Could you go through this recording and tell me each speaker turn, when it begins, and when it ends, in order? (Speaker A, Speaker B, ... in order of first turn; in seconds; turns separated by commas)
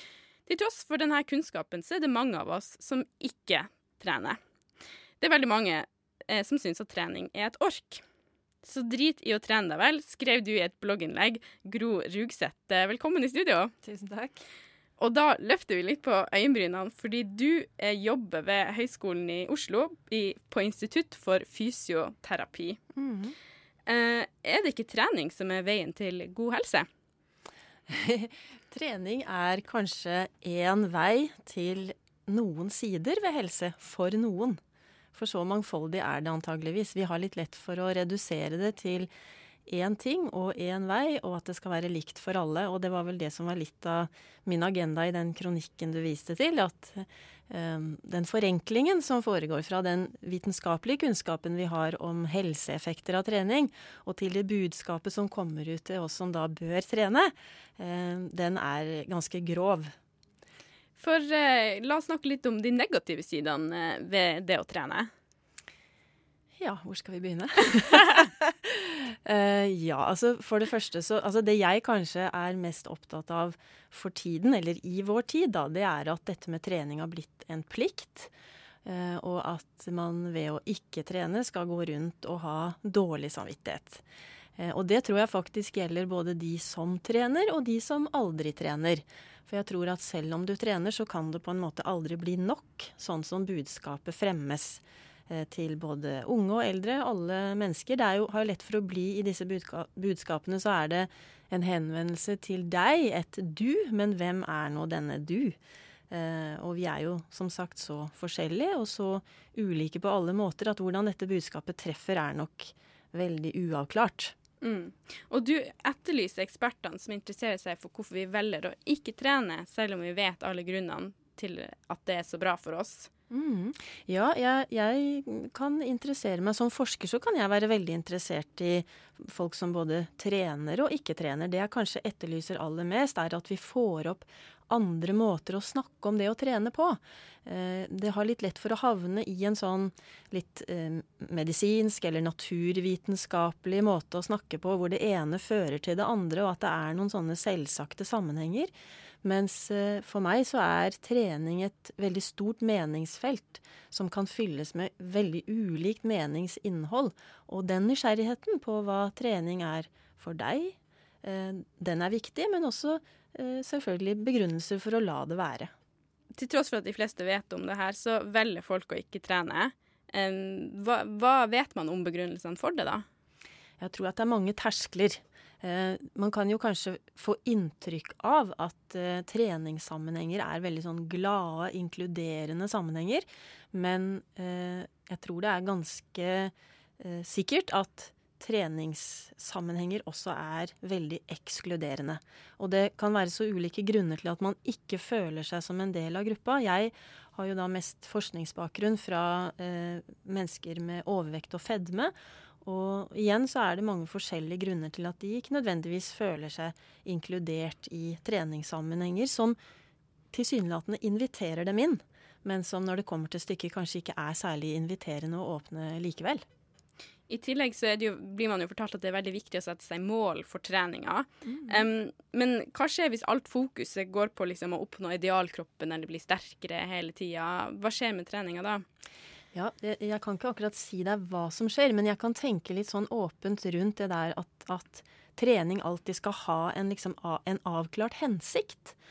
Speaker A: 0.5-4.4, Speaker A: 5.2-8.0, Speaker A: 8.6-13.7, Speaker B: 13.8-14.4, Speaker A: 15.0-22.8, Speaker B: 22.9-23.4, Speaker A: 23.9-26.9, Speaker B: 27.9-34.6, Speaker B: 35.1-39.1, Speaker B: 39.7-59.9, Speaker A: 61.0-65.1, Speaker B: 66.6-78.3, Speaker B: 78.8-84.0, Speaker B: 84.6-105.6, Speaker B: 106.1-114.3, Speaker A: 114.6-123.1, Speaker B: 123.3-148.7, Speaker B: 149.2-165.7, Speaker A: 166.3-173.1, Speaker B: 173.8-209.6, Speaker B: 210.3-216.4, Speaker A: 217.3-228.8, Speaker B: 221.4-221.9, Speaker B: 229.5-239.0